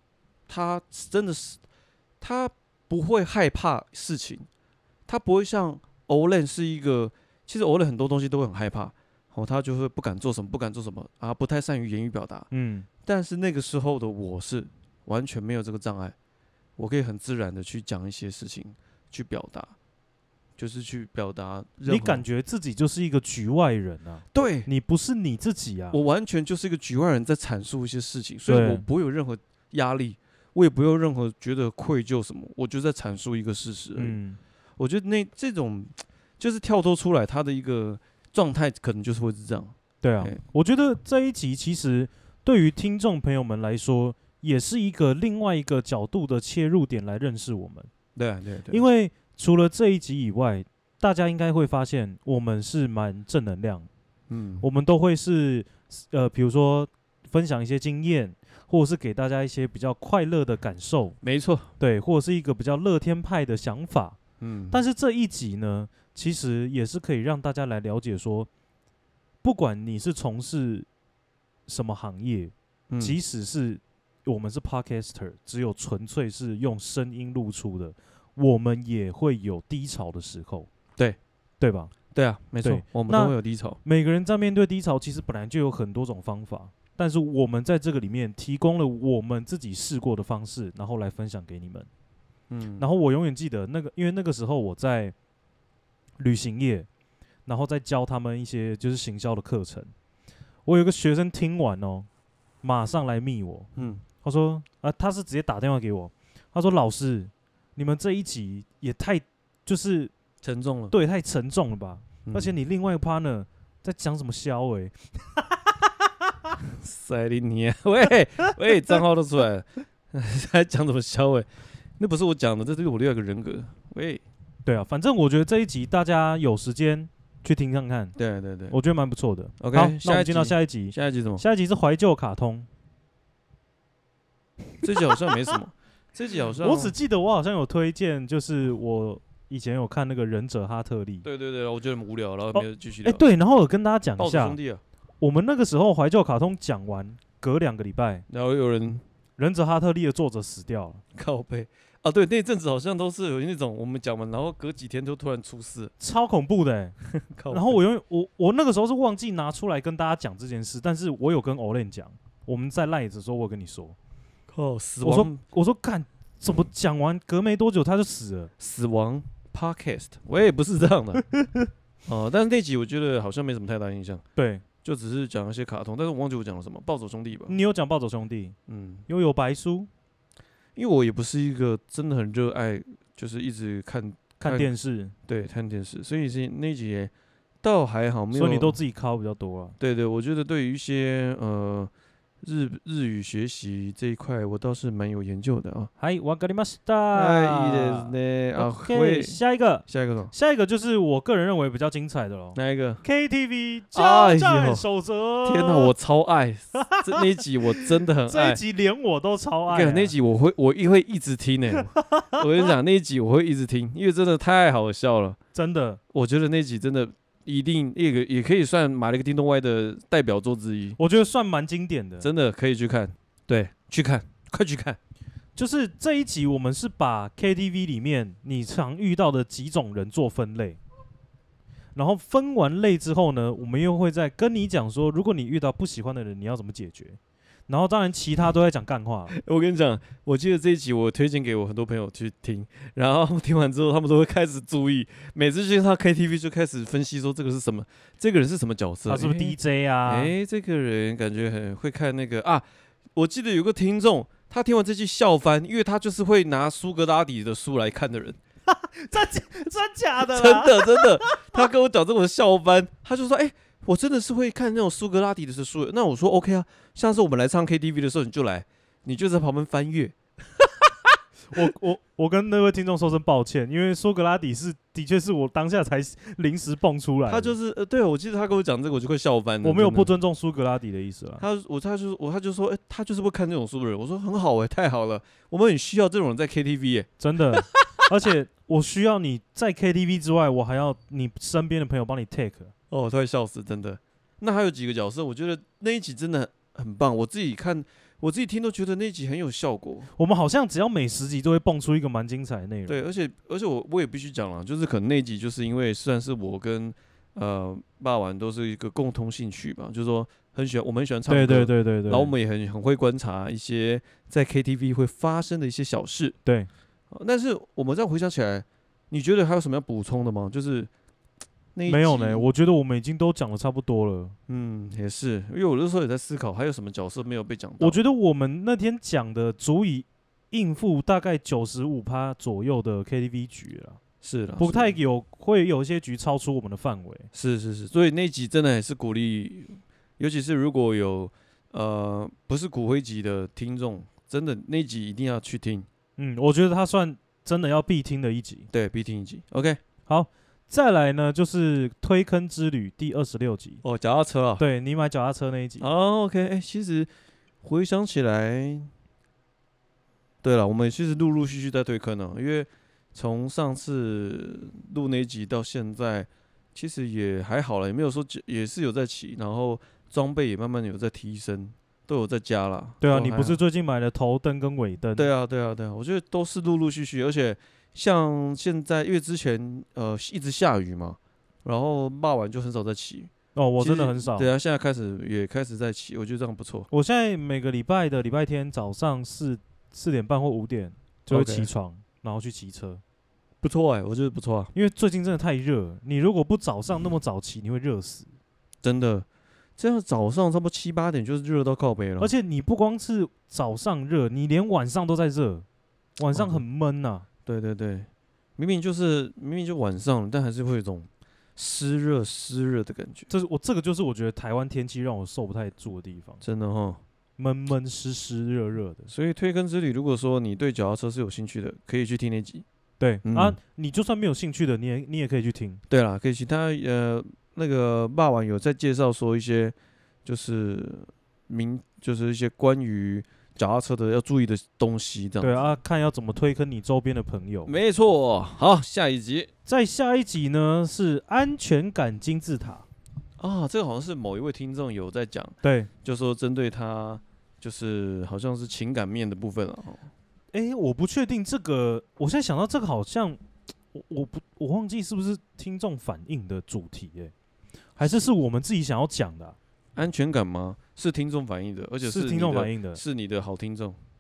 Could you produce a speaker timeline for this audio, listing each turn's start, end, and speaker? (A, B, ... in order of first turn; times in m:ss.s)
0:00.5-0:01.6 A
0:02.2-0:04.5 A
0:05.1-0:12.5 A
0:12.5-0:12.9 B
0:13.0-0:16.2 A
0:16.8-0:19.8 A
0:20.6-0:22.2 A
0:21.9-0:26.0 B
0:24.3-0:24.7 A
0:25.9-0:34.2 A
0:28.5-0:28.8 B
0:34.0-0:34.4 B
0:34.8-0:40.4 A
0:40.0-0:47.9 B
0:48.2-0:48.8 A
0:48.7-0:53.9 B
0:54.3-0:54.7 A
0:54.6-1:01.2 B
1:01.2-1:01.7 A
1:01.8-1:04.2 B
1:04.4-1:04.8 A
1:04.7-1:08.5 B
1:09.4-1:10.9 B
1:11.7-1:20.7 B
1:12.9-1:13.2 A
1:21.6-1:21.9 B
1:22.1-1:23.8 A
1:22.6-1:31.9 B
1:32.5-1:32.9 A
1:32.8-1:35.1 B
1:36.2-1:36.9 B
1:37.5-1:39.9 B
1:40.7-1:42.1 B
1:42.6-1:43.7 B
1:43.8-1:44.0 A
1:44.2-1:50.1 B
1:50.4-1:50.9 A
1:50.9-1:55.6 B
1:52.2-1:52.6 A
1:56.6-2:04.2 A
2:04.6-2:08.2 B
2:08.2-2:08.8 A
2:08.7-2:12.7 B
2:09.6-2:11.4 A
2:14.8-2:17.0 A
2:16.6-2:21.3 B
2:21.2-2:23.2 A
2:22.5-2:24.6 B
2:24.2-2:24.8 A
2:25.2-2:28.2 B
2:28.3-2:29.0 A
2:29.4-2:31.0 B
2:31.2-2:35.9 A
2:36.0-2:37.0 B
2:37.0-2:37.8 A
2:37.5-2:44.0 B
2:44.5-2:45.4 A
2:45.0-2:48.5 B
2:48.6-2:51.3 A
2:51.3-2:51.7 B
2:52.1-2:54.2 A
2:54.4-2:54.6 B
2:54.8-2:57.6 A
2:57.5-2:58.6 B
2:58.7-2:59.0 A
2:59.1-2:59.9 B
3:00.8-3:04.7 A
3:04.4-3:05.1 B
3:05.3-3:07.1 A
3:07.6-3:08.8 A
3:08.3-3:09.8 B
3:09.8-3:11.9 A
3:12.4-3:15.9 A
3:16.0-3:25.9 B
3:17.1-3:20.3 A
3:22.6-3:23.0 A
3:23.9-3:24.8 A
3:25.4-3:28.6 A
3:26.8-3:30.1 B
3:29.7-3:35.4 A
3:32.0-3:32.4 B
3:35.5-3:36.0 B
3:36.1-3:41.0 A
3:41.0-3:42.3 B
3:42.2-3:45.0 A
3:45.6-3:50.8 B
3:52.0-3:59.3 B
3:59.3-4:18.4 A
4:09.1-4:10.3 B
4:18.7-4:21.6 B
4:20.2-4:30.9 A
4:31.5-4:37.6 B
4:37.3-4:40.1 A
4:39.6-4:41.4 B
4:41.4-4:48.1 A
4:47.2-4:52.7 B
4:52.9-5:00.1 A
5:00.2-5:03.0 B
5:02.9-5:16.4 A
5:11.3-5:12.3 B
5:17.1-5:20.9 A
5:21.8-5:22.5 A
5:21.9-5:24.4 B
5:24.5-5:28.0 A
5:27.8-5:34.0 B
5:34.2-5:35.0 A
5:34.6-5:37.3 B
5:37.3-5:45.9 A
5:46.2-5:48.7 B
5:48.7-5:49.8 A
5:50.1-5:53.8 B
5:53.8-5:54.6 A
5:54.6-5:55.9 B
5:55.8-5:57.1 A
5:57.6-5:58.9 A
6:00.4-6:13.6 A
6:13.0-6:15.3 B
6:15.2-6:26.9 A
6:23.6-6:24.5 B
6:26.9-6:33.0 B
6:31.3-6:31.7 A
6:33.6-6:34.7 A
6:34.7-6:38.3 B
6:38.8-6:39.3 A
6:39.8-6:42.3 A
6:42.2-6:45.7 B
6:46.2-6:47.3 B
6:46.3-6:46.6 A
6:47.5-6:53.3 A
6:53.3-6:56.4 B
6:56.4-6:57.0 A
6:57.4-6:59.1 B
6:59.1-7:02.6 A
7:03.0-7:05.8 B
7:03.2-7:03.6 A
7:05.9-7:15.6 A
7:15.4-7:17.7 B
7:17.7-7:19.5 A
7:19.7-7:22.9 B
7:23.4-7:30.1 A
7:25.6-7:25.9 B
7:30.5-7:33.4 B
7:33.9-7:37.3 B
7:38.0-7:39.6 B
7:40.0-7:44.0 A
7:42.0-7:43.0 B